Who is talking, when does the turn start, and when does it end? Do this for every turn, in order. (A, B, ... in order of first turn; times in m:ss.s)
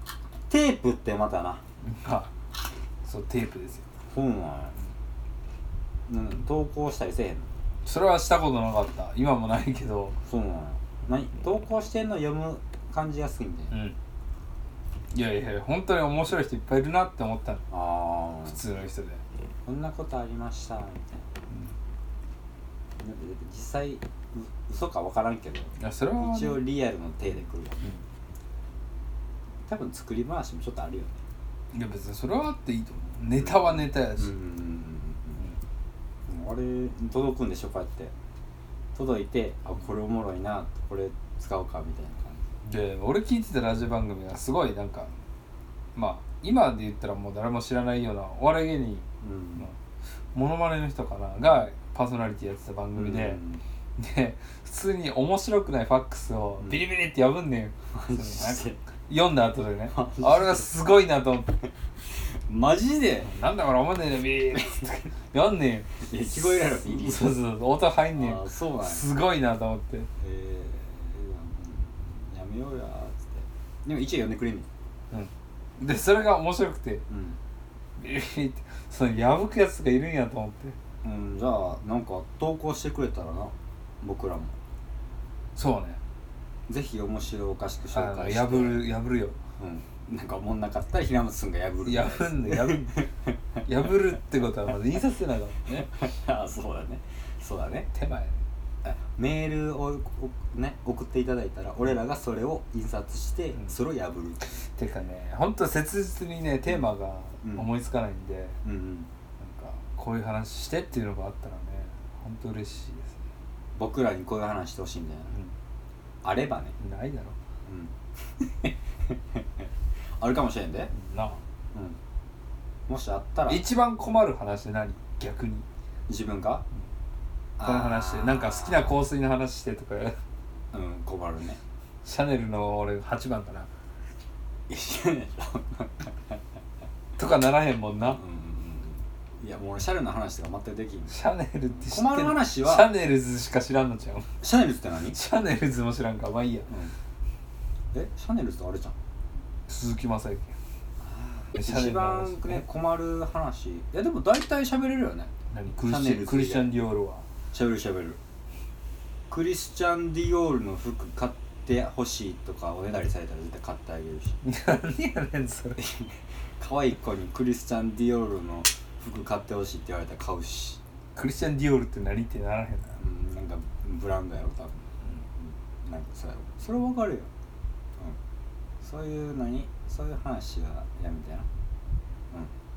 0:00.5-0:01.6 A
0:01.8-0:02.3 B
0:03.0-0:03.9 B
0:04.1-0:04.8 A
0:06.1-0:07.5 A
0:07.8-0:10.2 B
0:10.3-0:13.8 A
0:13.7-0:14.0 B
0:15.1-0:17.6 B
0:17.7-0:18.6 A
0:18.4-0:19.2 B
0:19.6-0:21.2 A
0:23.0-0:27.9 A
0:25.8-0:26.6 B
0:29.7-0:31.2 A
0:31.7-0:34.4 B
0:33.4-0:35.4 A
0:36.3-0:38.1 A
0:38.9-0:42.6 A
0:42.6-0:45.2 B
0:46.0-0:49.8 B
0:49.2-0:49.7 A
0:50.3-0:53.4 B
0:53.0-0:53.6 A
0:54.0-1:01.6 B
0:57.9-0:58.8 A
0:59.9-1:00.7 A
1:02.1-1:03.3 A
1:03.2-1:10.1 B
1:06.0-1:07.4 A
1:08.2-1:09.1 A
1:10.2-1:14.7 A
1:15.1-1:17.0 B
1:17.1-1:17.4 A
1:18.0-1:20.8 B
1:21.0-1:24.6 A
1:25.6-1:26.0 B
1:26.7-1:28.9 A
1:27.9-1:29.4 B
1:29.6-1:33.1 A
1:31.8-1:33.0 B
1:33.6-1:35.9 B
1:35.7-1:37.9 A
1:37.9-1:38.4 B
1:38.8-1:44.6 A
1:44.5-1:48.6 B
1:47.4-1:47.7 A
1:48.6-1:49.1 A
1:49.4-1:53.2 B
1:53.8-1:55.3 A
1:55.3-1:55.5 B
1:56.2-1:56.8 A
1:56.8-1:57.4 B
1:57.7-1:59.7 A
2:00.2-2:00.9 A
2:00.9-2:01.4 B
2:02.9-2:03.6 A
2:03.5-2:05.6 B
2:06.1-2:06.6 A
2:07.6-2:09.0 A
2:07.6-2:10.2 B
2:10.7-2:11.6 A
2:12.0-2:13.7 B
2:14.7-2:16.4 A
2:17.2-2:18.2 B
2:18.1-2:21.2 A
2:21.1-2:24.4 B
2:21.8-2:22.9 A
2:24.4-2:25.2 A
2:25.1-2:26.7 B
2:26.7-2:26.9 A
2:27.9-2:29.0 A
2:29.7-2:30.6 B
2:31.0-2:36.7 A
2:31.5-2:32.7 B
2:35.5-2:37.3 B
2:37.5-2:38.2 A
2:39.3-2:44.4 A
2:44.4-2:45.8 B
2:45.8-2:50.8 A
2:51.2-2:52.9 B
2:52.9-2:54.8 A
2:55.4-2:57.3 A
2:58.8-3:01.5 A